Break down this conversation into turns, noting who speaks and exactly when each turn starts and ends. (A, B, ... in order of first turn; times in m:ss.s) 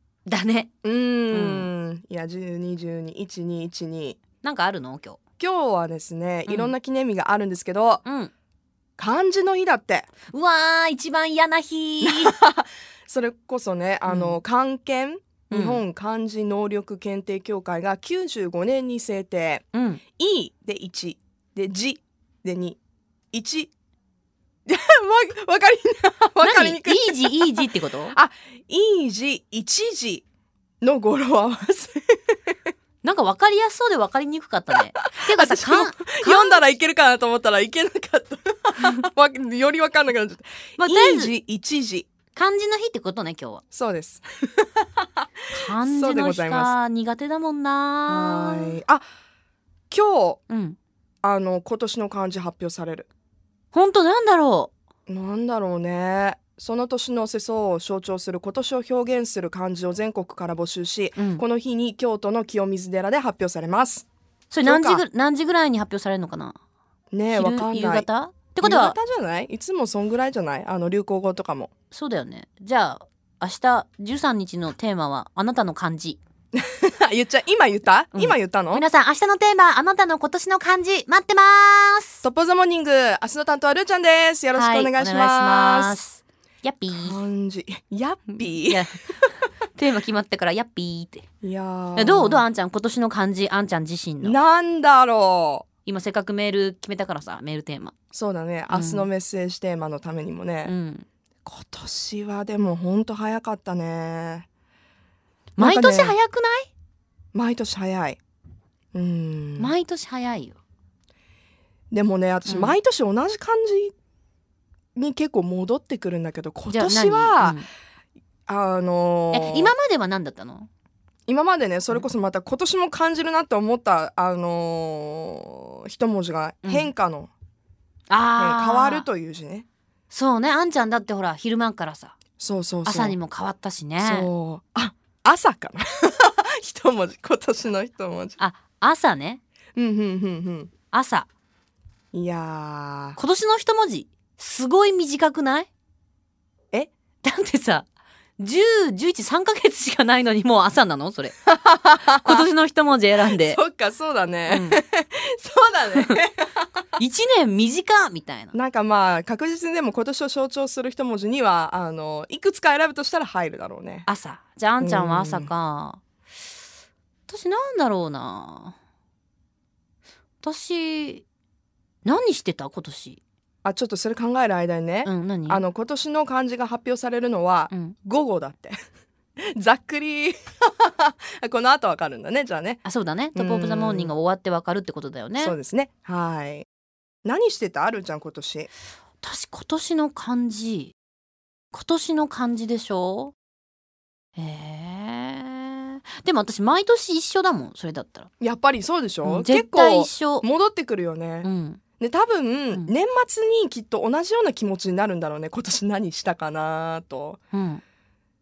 0:00.3-0:00.7 A
0:00.8-0:04.2 B
0:01.3-0:01.7 A
0:04.4-0:05.2 A
0:05.4-0:08.0 B
0:06.5-0:06.7 A
0:08.0-0:08.3 A
0:09.0-0:10.1 B
0:10.3-0:12.3 A
0:12.0-0:22.8 B
0:14.1-0:14.4 A
0:15.5-0:15.8 A
0:19.8-0:20.0 A
0:23.3-0:23.7 B
0:24.7-0:30.2 B
0:26.4-0:28.2 A
0:30.8-0:32.6 B
0:33.0-0:36.6 A
0:35.0-0:42.1 B
0:40.8-0:41.3 A
0:42.4-0:43.6 A
0:43.7-0:46.8 B
0:45.5-0:48.8 A
0:48.1-0:49.0 B
0:49.9-0:50.4 B
0:50.5-0:50.8 A
0:51.2-0:53.1 B
0:53.7-0:54.7 A
0:55.1-1:04.1 B
1:04.5-1:06.6 A
1:04.6-1:05.0 B
1:07.1-1:08.1 B
1:07.3-1:09.0 A
1:08.6-1:11.7 B
1:11.9-1:16.2 A
1:16.6-1:18.8 B
1:18.2-1:22.2 A
1:22.2-1:26.0 B
1:24.6-1:27.2 A
1:26.9-1:29.2 B
1:28.6-1:29.0 A
1:29.8-1:31.2 A
1:31.4-1:32.4 B
1:32.0-1:34.4 A
1:34.2-1:35.7 B
1:35.9-1:37.9 A
1:38.1-1:40.7 B
1:38.7-1:39.1 A
1:40.7-1:41.0 A
1:41.4-1:44.5 B
1:45.6-1:46.7 A
1:45.6-1:46.2 B
1:47.3-1:48.2 B
1:48.9-1:49.7 B
1:49.7-1:50.6 A
1:51.9-1:53.9 B
1:55.0-1:57.6 B
1:56.7-1:57.6 A
1:58.5-1:59.7 B
1:59.3-2:00.7 A
2:01.3-2:07.3 B
2:06.6-2:06.9 A
2:08.1-2:09.0 A
2:08.4-2:09.7 B
2:10.1-2:12.1 A
2:12.4-2:13.2 B
2:12.9-2:14.3 A
2:14.0-2:18.4 B
2:18.4-2:19.4 A
2:19.8-2:20.7 B
2:20.9-2:21.3 A
2:22.1-2:23.2 B
2:23.2-2:25.7 A
2:27.2-2:27.9 A
2:28.4-2:31.4 A
2:31.5-2:32.5 B
2:32.2-2:33.6 A
2:33.2-2:36.9 B
2:34.5-2:34.8 A
2:37.0-2:38.5 A
2:38.5-2:44.1 B
2:44.1-2:46.0 A
2:44.8-2:45.5 B
2:47.3-2:48.8 A
2:50.4-2:51.2 A
2:52.0-2:53.2 A
2:53.6-2:58.8 B
2:55.0-2:55.6 A
2:59.4-3:02.8 B
3:02.9-3:05.5 A
3:03.4-3:04.1 B
3:05.4-3:06.7 B
3:07.2-3:08.7 B
3:09.2-3:10.9 A
3:11.8-3:13.3 A
3:14.4-3:18.3 A
3:18.4-3:21.5 B
3:19.2-3:20.5 A
3:21.4-3:21.8 A
3:22.0-3:27.4 B
3:27.5-3:27.8 A